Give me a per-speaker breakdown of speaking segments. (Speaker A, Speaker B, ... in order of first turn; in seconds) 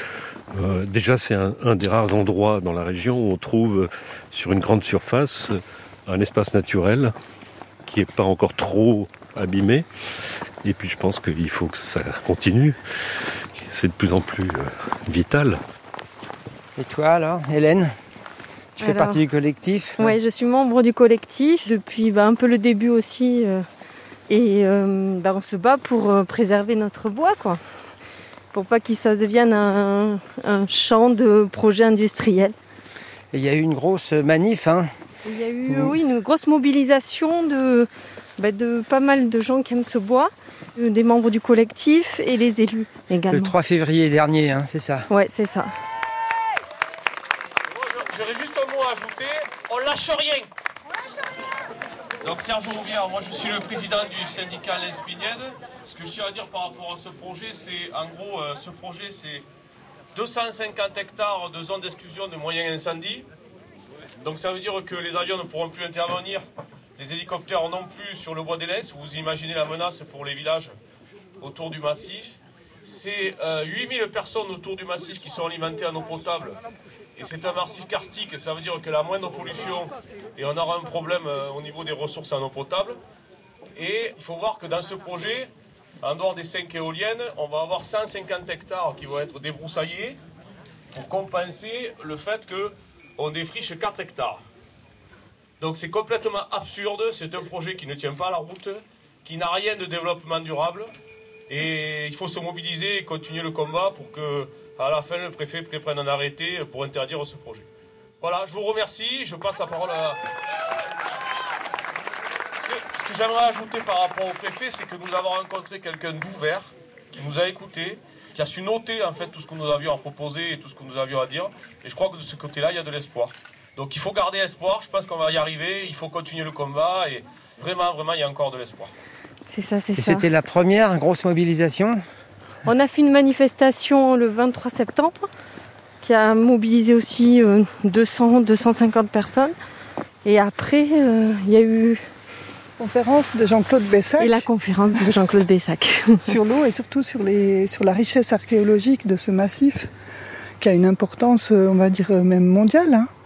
Speaker A: 0.5-7.1, 7.9-9.9, 10.6-12.8, 13.6-15.6
Speaker B: 16.8-17.9, 18.8-20.1, 33.3-34.9, 35.7-36.0, 43.3-45.1, 130.0-132.0
Speaker C: 18.8-19.2, 20.0-23.6, 24.3-27.6, 28.5-32.5, 35.2-43.5, 45.1-45.7, 129.5-130.3, 132.7-135.2, 136.0-139.5, 140.2-142.0, 144.2-146.3
Speaker D: 47.8-50.5, 52.2-59.5, 60.1-63.2, 64.2-66.4, 67.0-70.7, 71.4-76.6, 77.2-83.0, 83.8-85.5, 86.0-90.2, 90.9-94.4, 95.6-100.9, 101.5-107.7, 108.2-110.2, 112.6-128.9
Speaker E: 142.8-145.0, 146.2-149.9, 150.6-153.1